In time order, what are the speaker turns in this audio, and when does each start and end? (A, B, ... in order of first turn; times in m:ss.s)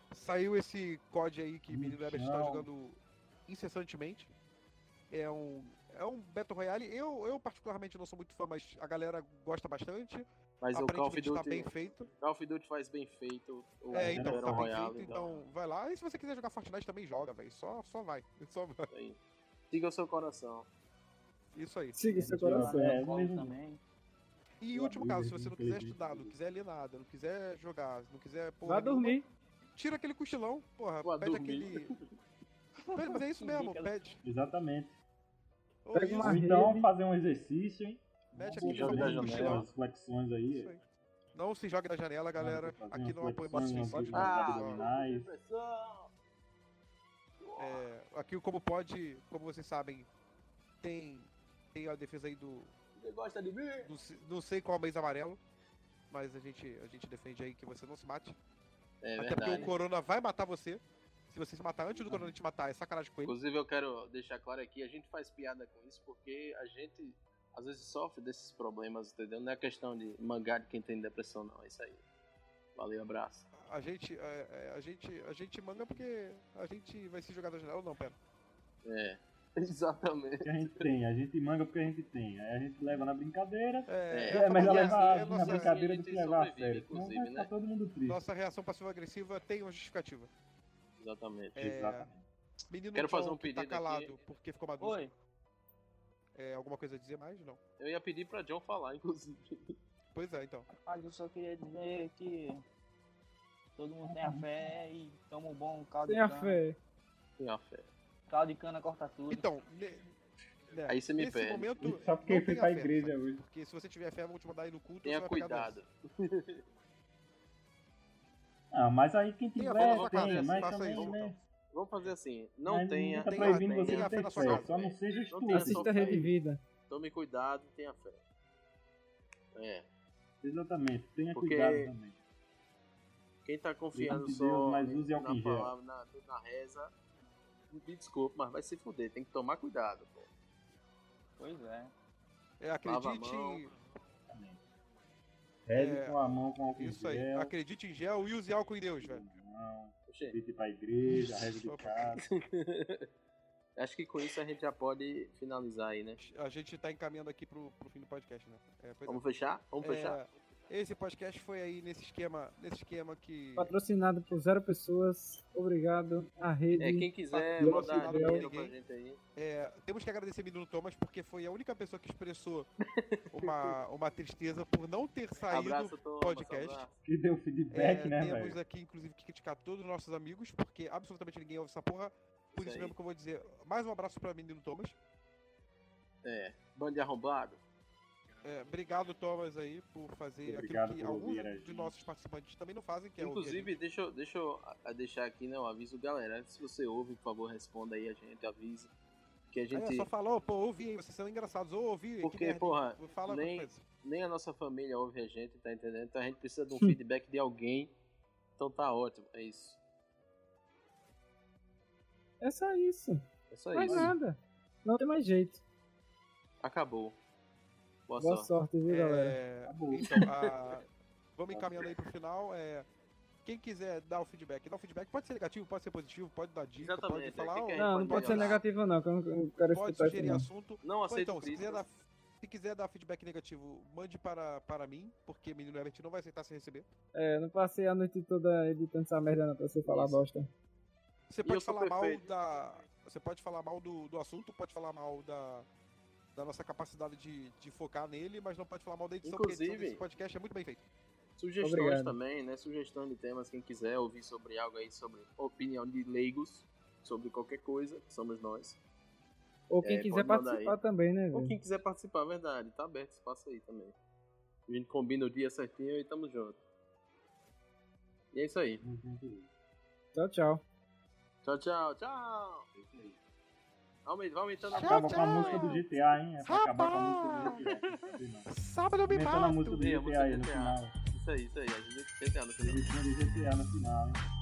0:00.1-0:04.3 A
0:01.7-0:02.7 B
0:05.1-0:12.1 A
0:10.6-0:15.4 C
0:13.9-0:18.9 A
0:13.9-0:14.8 B
0:18.9-0:19.2 C
0:19.7-0:20.7 C
0:21.5-0:22.2 A
0:22.0-0:23.0 D
0:22.1-0:23.8 E
0:22.2-0:23.6 B
0:24.6-0:29.2 A
0:24.7-0:26.3 B
0:28.6-0:29.2 D
0:29.7-0:31.9 A
0:31.0-0:32.1 C
0:32.8-0:34.0 E
0:33.0-0:34.2 A
0:34.2-0:35.0 B
0:35.8-0:36.5 A
0:35.9-0:36.9 D
0:36.2-0:40.7 B
0:38.3-0:39.7 A
0:38.6-0:39.7 C
0:40.5-0:40.8 A
0:41.3-0:44.8 A
0:42.4-0:45.3 B
0:44.1-0:46.1 C
0:47.4-0:47.9 C
0:47.6-0:50.1 A
0:50.8-0:52.7 A
0:52.9-0:53.9 C
0:53.8-0:55.4 A
0:56.1-0:58.4 A
0:59.0-0:59.7 C
0:59.2-1:03.4 A
1:02.1-1:02.3 B
1:03.2-1:12.0 C
1:12.8-1:13.5 C
1:13.6-1:18.1 A
1:18.8-1:20.5 C
1:20.4-1:28.2 B
1:23.9-1:25.8 A
1:24.1-1:27.5 C
1:28.1-1:30.3 A
1:31.0-1:31.7 C
1:31.5-1:32.1 A
1:31.6-1:32.2 B
1:32.7-1:35.0 A
1:32.9-1:34.2 C
1:34.8-1:35.1 E
1:36.3-1:37.6 A
1:37.8-1:39.8 C
1:40.1-1:40.7 A
1:40.7-1:42.6 E
1:43.8-1:46.6 E
1:44.0-1:44.8 B
1:46.1-1:46.8 D
1:47.4-1:47.9 C
1:48.3-1:49.4 E
1:49.3-1:50.0 A
1:50.7-1:55.8 A
1:50.9-1:51.9 C
1:51.8-1:53.4 B
1:55.0-1:56.6 C
1:58.7-2:01.4 B
1:59.6-2:01.3 A
1:59.8-2:06.3 C
2:02.6-2:06.2 B
2:03.2-2:04.7 A
2:05.5-2:06.6 D
2:06.9-2:08.2 C
2:09.5-2:09.9 C
2:10.4-2:12.2 B
2:11.3-2:11.9 C
2:13.4-2:16.9 C
2:13.9-2:15.7 B
2:17.7-2:20.3 C
2:21.4-2:21.9 E
2:22.6-2:23.7 A
2:22.8-2:23.6 C
2:24.3-2:24.6 B
2:25.6-2:27.5 B
2:25.7-2:26.2 A
2:26.7-2:29.2 A
2:29.0-2:32.2 B
2:30.1-2:30.4 C
2:31.1-2:32.1 A
2:32.2-2:33.0 C
2:33.8-2:36.2 C
2:36.2-2:39.2 A
2:39.0-2:40.2 C
2:39.8-2:43.7 A
2:43.6-2:48.4 D
2:46.8-2:49.2 C
2:47.3-2:48.7 A
2:49.4-2:52.7 A
2:52.9-2:53.7 C
2:53.3-2:56.9 A
2:55.5-2:57.0 C
2:57.0-2:58.6 B
2:57.7-3:05.0 A
3:02.5-3:02.9 C
3:06.2-3:07.6 C
3:08.4-3:13.7 A
3:10.4-3:11.9 B
3:13.2-3:18.9 C
3:19.5-3:20.1 C
3:19.7-3:23.8 A
3:22.2-3:27.9 C
3:28.6-3:29.8 C
3:32.4-3:35.6 D
3:33.5-3:34.1 C
3:33.9-3:34.2 B
3:36.6-3:37.2 C
3:38.1-3:38.5 C
3:38.2-3:39.4 D
3:38.8-3:42.9 A
3:39.6-3:40.2 B
3:40.0-3:40.5 C
3:41.5-3:41.9 B
3:43.4-3:48.6 A
3:46.8-3:48.6 C
3:47.8-3:50.5 D
3:49.7-3:56.8 A
3:50.8-3:51.8 C
3:57.1-4:00.5 D
3:59.8-4:00.2 C
4:01.3-4:05.7 A
4:01.4-4:02.3 C
4:06.3-4:10.8 A
4:09.2-4:10.0 C
4:11.4-4:18.8 C
4:11.6-4:12.1 D
4:19.7-4:21.6 D
4:19.8-4:20.8 C
4:21.3-4:23.9 C
4:24.7-4:26.6 C
4:28.3-4:28.8 C
4:28.8-4:29.5 B
4:30.1-4:30.6 D
4:31.4-4:32.6 C
4:32.7-4:33.2 B
4:34.0-4:35.8 C
4:34.6-4:38.5 B
4:34.7-4:35.8 A
4:36.4-4:37.6 A
4:37.4-4:38.1 C
4:38.5-4:39.8 A
4:39.0-4:40.9 B
4:39.8-4:42.8 C
4:42.6-4:44.2 B